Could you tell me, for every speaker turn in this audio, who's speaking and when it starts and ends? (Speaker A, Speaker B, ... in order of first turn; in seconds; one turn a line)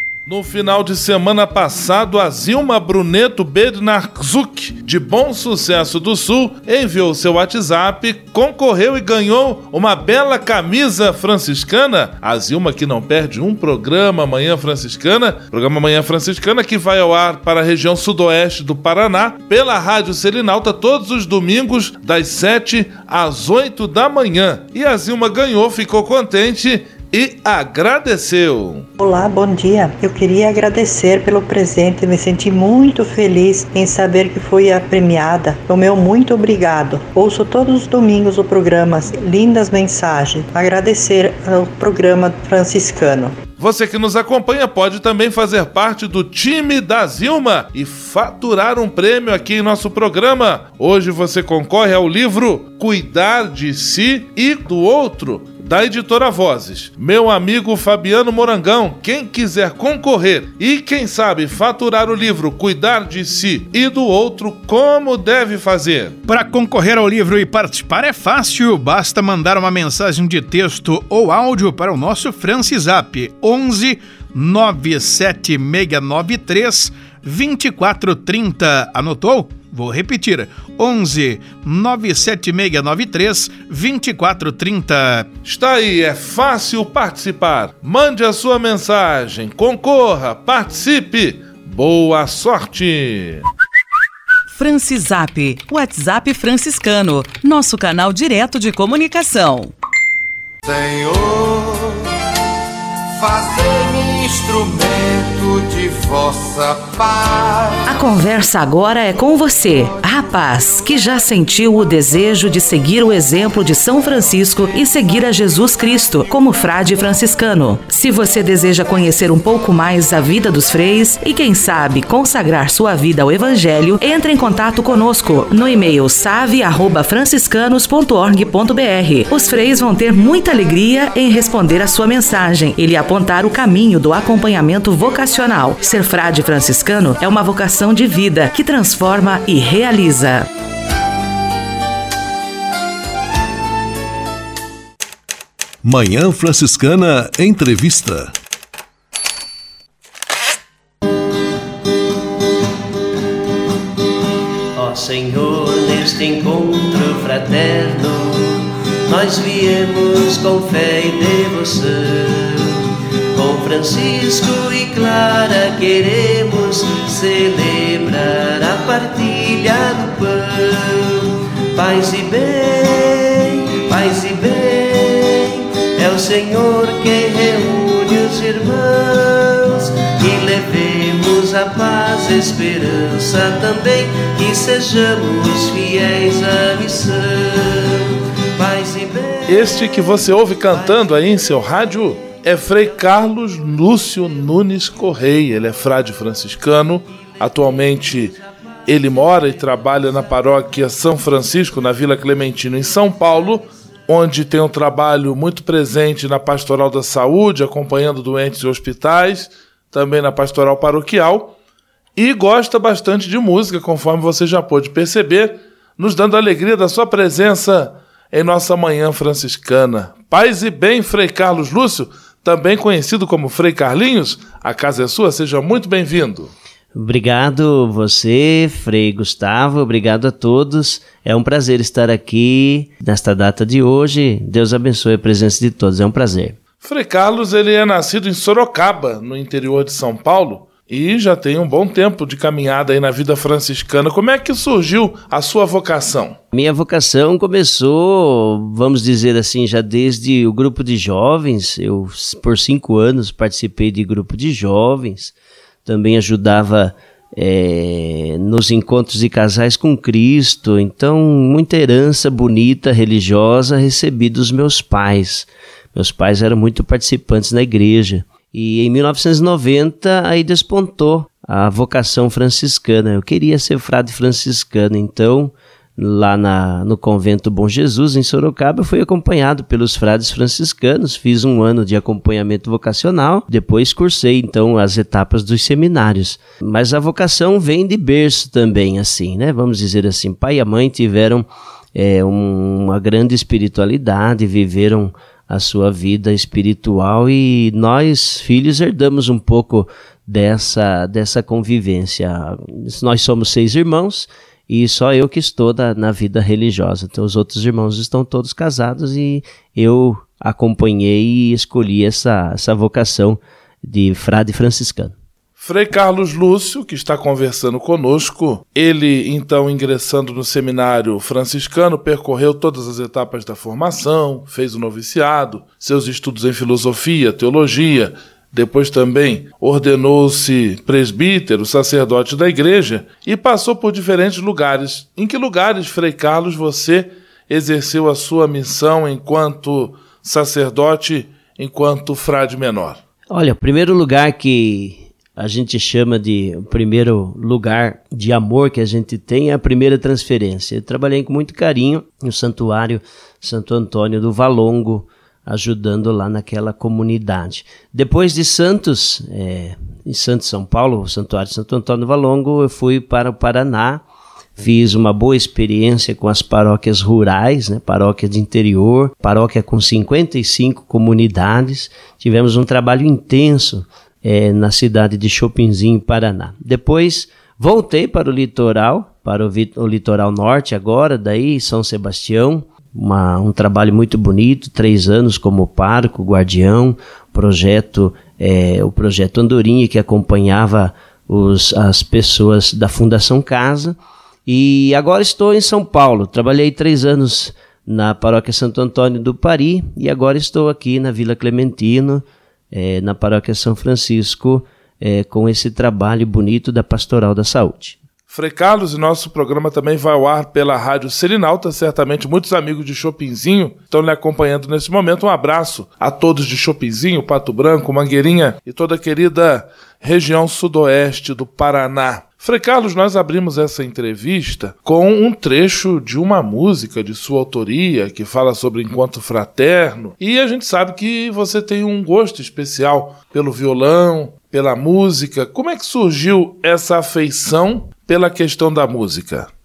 Speaker A: 0.2-28.9
Speaker B: 29.0-43.3
Speaker A: 43.6-66.2
Speaker C: 66.3-85.3
Speaker A: 85.4-93.5
Speaker D: 94.6-99.7
Speaker E: 100.6-102.0
Speaker E: 103.2-107.8
Speaker F: 107.9-140.5
Speaker G: 145.8-148.3
Speaker H: 154.8-162.8
Speaker H: 163.3-191.1
Speaker A: 189.5-211.5
Speaker A: 212.2-226.5
Speaker H: 226.9-236.6
Speaker A: 236.8-246.3
Speaker H: 246.5-255.3
Speaker H: 255.9-315.1
Speaker A: 315.6-343.0
Speaker H: 343.3-364.0
Speaker H: 364.6-408.0
Speaker A: 408.3-439.5